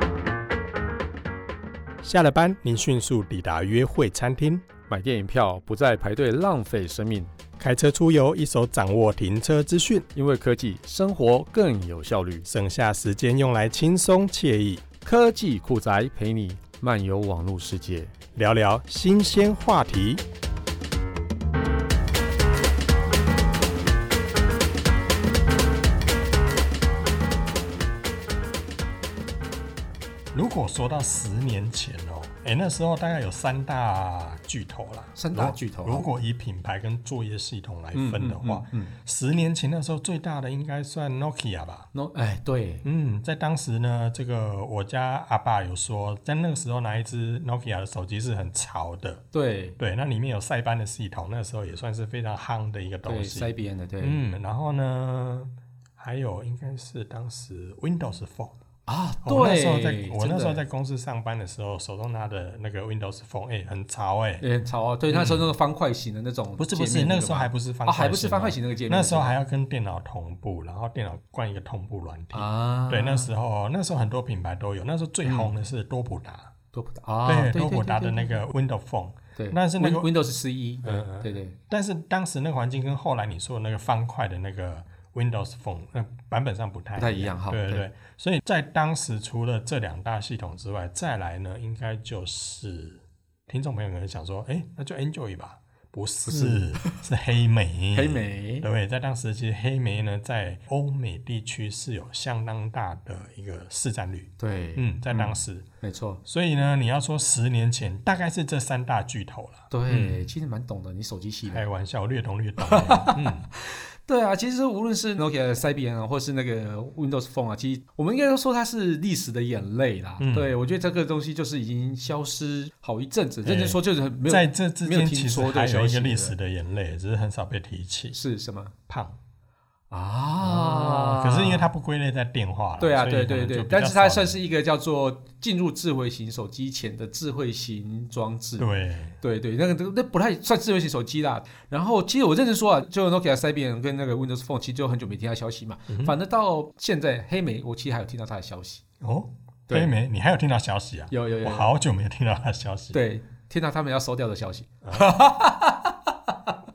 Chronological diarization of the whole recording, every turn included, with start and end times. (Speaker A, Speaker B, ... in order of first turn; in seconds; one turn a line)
Speaker A: 2.0-4.7
Speaker B: 4.9-7.3
Speaker A: 7.6-10.1
Speaker B: 10.1-12.5
Speaker A: 12.4-14.8
Speaker B: 15.0-18.1
Speaker A: 18.3-20.2
Speaker A: 30.3-41.9
Speaker B: 35.1-36.0
Speaker B: 37.9-38.9
Speaker B: 41.9-42.8
Speaker A: 42.8-49.2
Speaker B: 49.3-49.8
Speaker A: 49.8-58.5
Speaker B: 53.0-54.2
Speaker B: 58.9-60.6
Speaker A: 59.2-64.4
Speaker B: 64.4-69.3
Speaker A: 65.1-65.5
Speaker A: 66.6-76.5
Speaker B: 72.3-73.3
Speaker B: 75.2-75.5
Speaker B: 76.7-78.4
Speaker A: 77.2-80.1
Speaker B: 79.3-81.6
Speaker A: 80.8-105.7
Speaker B: 87.0-87.8
Speaker B: 96.2-97.0
Speaker B: 97.9-98.7
Speaker B: 104.4-106.2
Speaker A: 106.2-110.2
Speaker B: 109.7-111.6
Speaker A: 111.5-113.5
Speaker B: 112.6-126.3
Speaker A: 120.2-120.5
Speaker A: 123.4-128.2
Speaker B: 128.1-128.7
Speaker A: 128.9-129.2
Speaker B: 129.9-131.7
Speaker A: 130.4-134.4
Speaker B: 132.8-138.7
Speaker A: 138.6-139.2
Speaker B: 139.2-148.8
Speaker A: 145.9-146.1
Speaker A: 149.0-153.0
Speaker B: 151.1-151.7
Speaker B: 152.9-156.6
Speaker A: 154.8-155.1